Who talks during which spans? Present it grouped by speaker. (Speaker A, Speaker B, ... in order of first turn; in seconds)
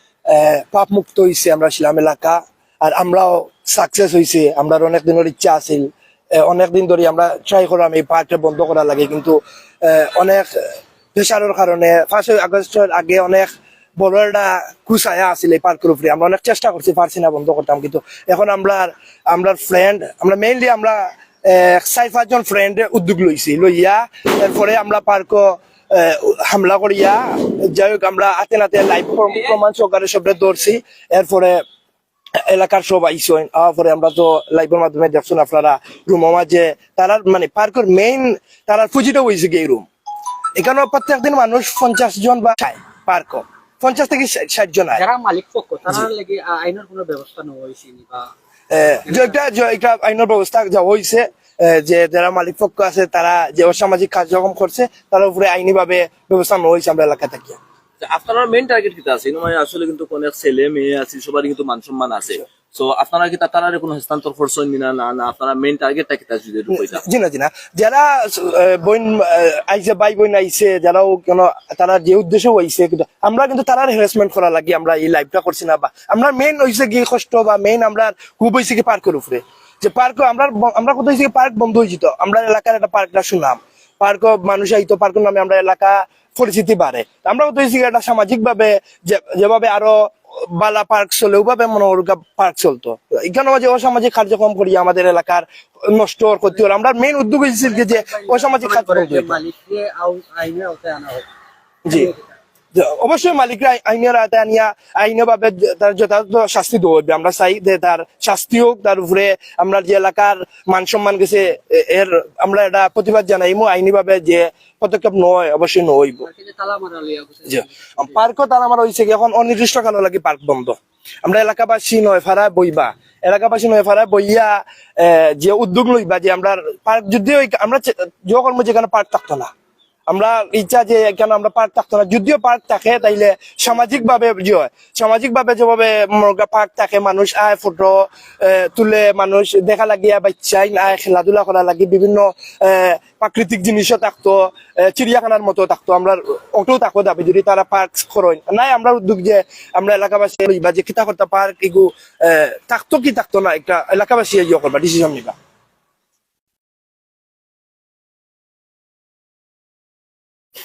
Speaker A: 0.3-10.6, 11.1-31.6, 32.4-39.9, 40.5-45.0, 48.7-57.6, 66.7-99.4, 101.8-102.1, 102.7-116.3, 117.5-129.5, 130.1-155.3
Speaker B: 44.9-48.3, 49.1-49.4, 97.6-101.3, 101.9-102.2, 116.2-118.2
Speaker C: 58.0-67.0